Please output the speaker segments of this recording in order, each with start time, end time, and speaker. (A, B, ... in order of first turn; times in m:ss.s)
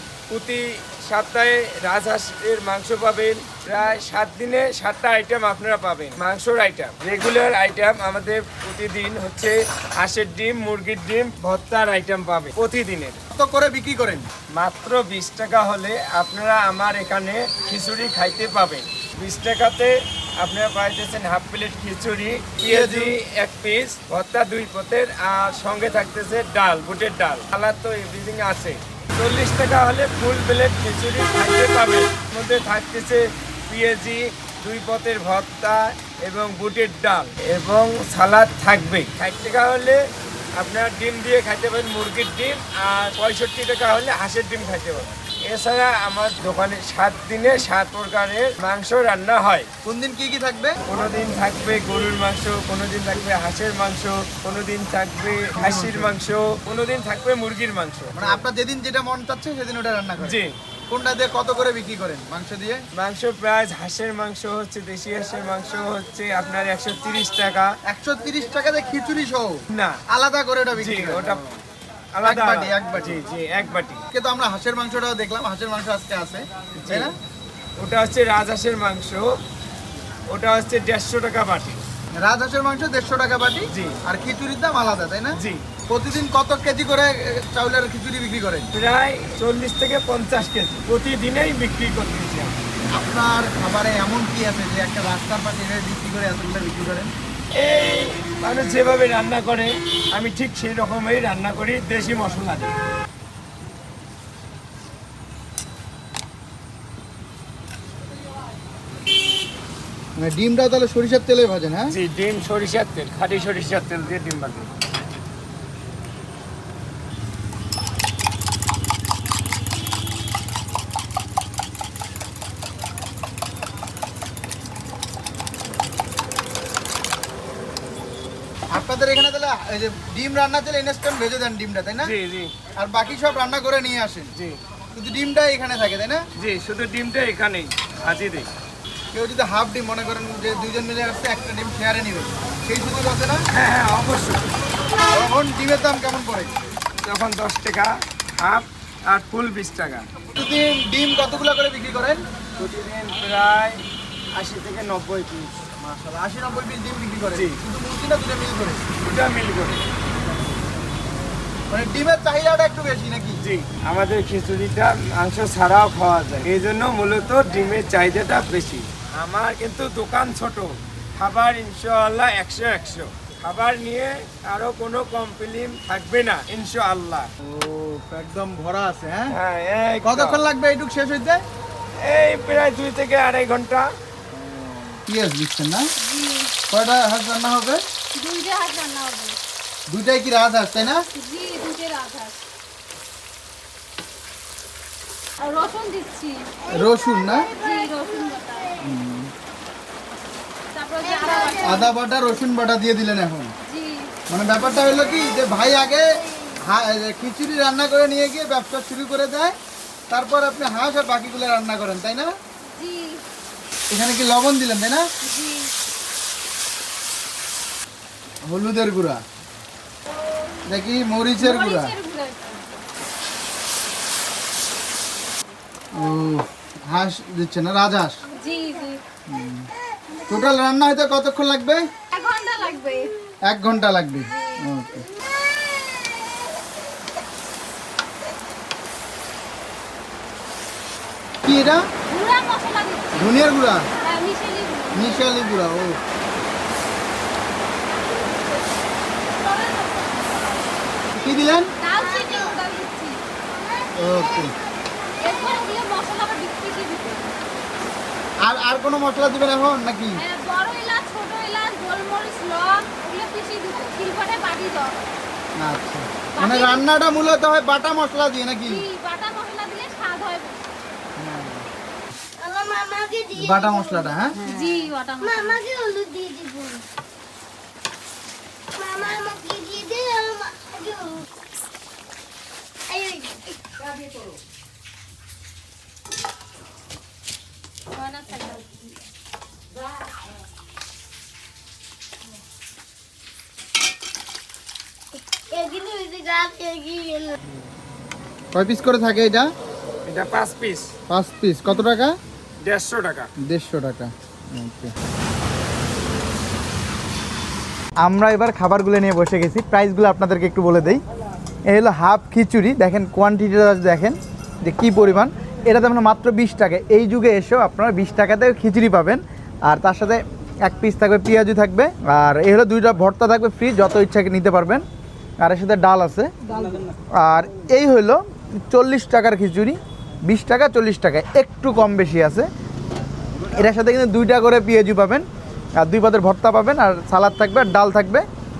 0:00.3-0:13.2 A
0:13.3-0:14.3 B
0:14.5-0:40.0 A
0:22.6-0:23.1 B
0:40.6-0:49.7 A
0:49.8-0:50.8 B
0:50.9-0:58.4 A
0:55.6-0:56.1 B
0:58.1-1:02.8 B
1:00.2-1:00.5 A
1:02.9-1:07.8 A
1:07.8-1:11.4 B
1:09.7-1:10.0 A
1:10.7-1:11.6 A
1:12.1-1:14.0 A
1:12.2-1:13.2 B
1:14.1-1:17.1 B
1:16.8-1:17.1 A
1:17.8-1:19.4 A
1:20.3-1:21.8 A
1:22.2-1:25.4 B
1:23.7-1:24.0 A
1:25.3-1:25.6 A
1:25.9-1:28.7 B
1:28.7-1:32.6 A
1:32.9-1:37.1 B
1:37.6-1:42.7 A
1:50.2-1:51.9 B
1:51.9-1:54.7 A
2:08.7-2:12.1 B
2:12.0-2:12.5 A
2:12.8-2:14.3 B
2:14.9-2:16.2 B
2:16.4-2:18.5 A
2:19.1-2:23.4 B
2:23.5-2:24.5 A
2:25.1-2:26.6 B
2:27.0-2:30.1 A
2:30.3-2:32.2 B
2:32.6-2:35.6 A
2:35.8-2:38.9 B
2:37.3-2:37.6 A
2:39.0-2:39.8 A
2:41.7-2:43.4 B
2:43.4-2:57.3 A
2:57.4-2:59.3 B
2:59.3-3:00.4 A
3:00.0-3:01.4 B
3:02.0-3:03.9 A
3:04.5-3:05.9 B
3:06.0-3:06.5 C
3:06.7-3:07.8 B
3:08.1-3:09.4 C
3:09.9-3:11.1 B
3:11.1-3:12.4 C
3:15.4-3:16.6 C
3:16.7-3:17.5 B
3:17.5-3:18.8 C
3:18.8-3:19.3 B
3:20.7-3:21.9 C
3:21.6-3:23.5 B
3:23.6-3:24.1 C
3:24.3-3:29.6 B
3:30.1-3:32.3 B
3:32.7-3:33.2 C
3:33.9-3:35.1 B
3:35.2-3:35.7 C
3:38.4-3:39.2 B
3:40.7-3:41.9 B
3:41.4-3:42.7 C
3:45.9-3:48.2 B
3:48.4-3:49.0 C
3:49.3-3:49.7 B
3:50.3-3:51.9 B
3:52.1-3:53.1 C
3:53.4-3:55.0 B
4:01.4-4:01.8 B
4:02.1-4:03.4 C
4:03.1-4:03.9 B
4:04.0-4:05.2 C
4:04.9-4:06.0 B
4:09.3-4:10.7 C
4:11.1-4:11.7 B
4:11.8-4:13.2 C
4:13.9-4:14.5 B
4:15.2-4:17.4 C
4:18.4-4:20.2 B
4:20.2-4:25.0 C
4:25.6-4:28.8 B
4:26.4-4:26.9 C
4:28.7-4:30.6 C
4:31.2-4:31.6 B
4:32.4-4:34.1 D
4:33.3-4:34.4 B
4:34.4-4:35.6 C
4:35.4-4:36.8 D
4:38.8-4:41.2 D
4:42.9-4:43.5 D
4:47.9-4:48.8 C
4:55.3-4:57.4 D
4:58.5-4:59.5 B
5:00.0-5:00.9 A
5:01.1-5:02.1 B
5:02.6-5:03.3 A
5:03.4-5:04.9 B
5:08.0-5:11.0 B
5:11.7-5:24.8 B
5:25.4-5:32.5 B
5:33.5-5:38.2 B